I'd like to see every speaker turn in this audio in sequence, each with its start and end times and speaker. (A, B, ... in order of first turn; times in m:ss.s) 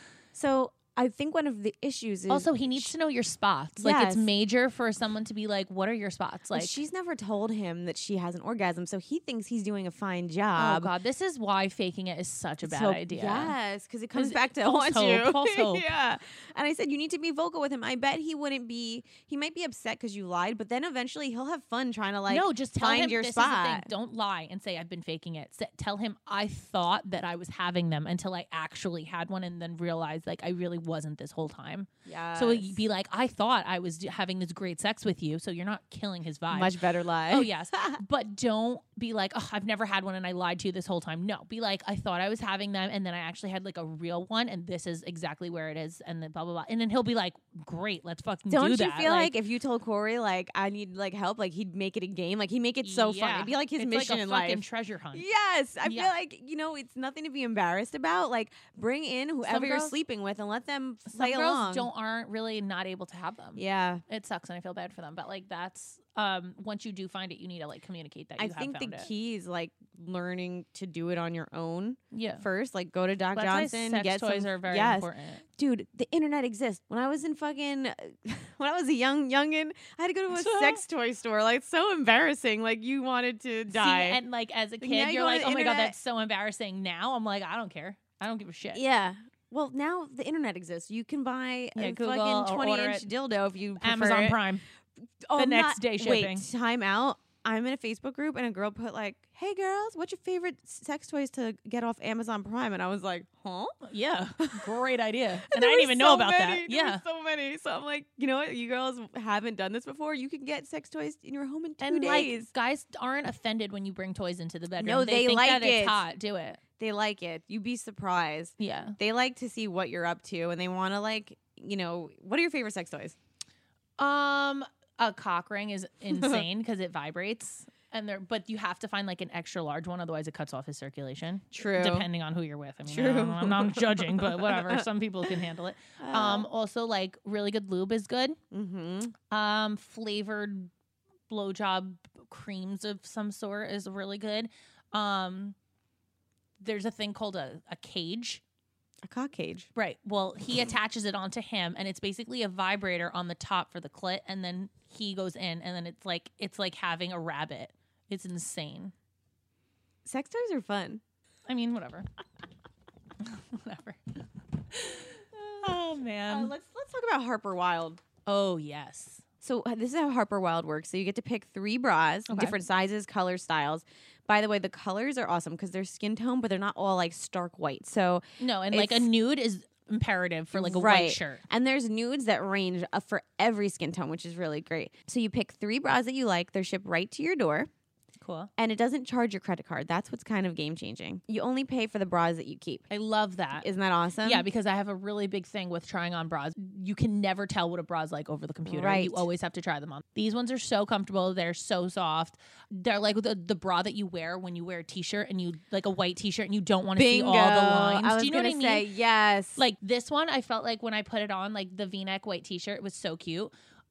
0:00.3-0:02.9 A
0:02.3-0:06.8 B
0:03.8-0:04.3 A
0:06.5-0:10.9 A
0:10.6-0:13.6 B
0:12.6-0:23.9 A
0:14.1-0:15.9 B
0:22.3-0:36.8 B
0:32.0-0:32.8 A
0:36.5-0:38.0 A
0:37.3-0:49.3 B
0:48.5-1:01.9 A
0:52.8-0:55.3 B
0:55.8-0:56.1 B
0:59.5-1:00.0 B
1:01.1-1:09.1 B
1:03.6-1:04.0 A
1:08.4-1:24.2 A
1:12.1-1:12.4 B
1:13.3-1:15.4 B
1:20.3-1:20.8 B
1:23.7-1:28.8 B
1:24.8-1:26.0 A
1:28.7-1:34.4 A
1:31.8-1:33.1 B
1:33.8-1:34.6 B
1:35.3-1:43.8 A
1:35.4-1:36.5 B
1:43.8-1:47.0 B
1:44.4-1:44.7 A
1:45.4-1:52.5 A
1:51.8-1:56.6 B
1:54.8-1:56.0 A
1:56.8-2:03.2 A
1:58.6-1:59.0 B
2:04.0-2:18.4 B
2:06.1-2:06.4 A
2:11.5-2:12.1 A
2:12.9-2:14.9 A
2:16.0-2:16.5 A
2:18.5-2:19.1 A
2:19.3-2:20.7 B
2:21.3-2:25.6 B
2:26.6-2:28.4 B
2:29.0-2:29.7 A
2:29.8-2:38.9 B
2:40.0-2:41.0 A
2:41.5-2:42.1 B
2:43.2-2:46.5 B
2:45.3-2:48.0 A
2:48.2-2:49.2 B
2:49.4-2:59.1 A
2:52.3-2:52.6 B
2:58.4-3:01.4 B
3:00.5-3:07.7 A
3:08.2-3:08.5 B
3:08.6-3:12.9 A
3:12.9-3:13.7 B
3:13.6-3:14.5 A
3:14.2-3:28.9 B
3:18.7-3:19.3 A
3:27.0-3:29.6 A
3:29.6-3:33.5 B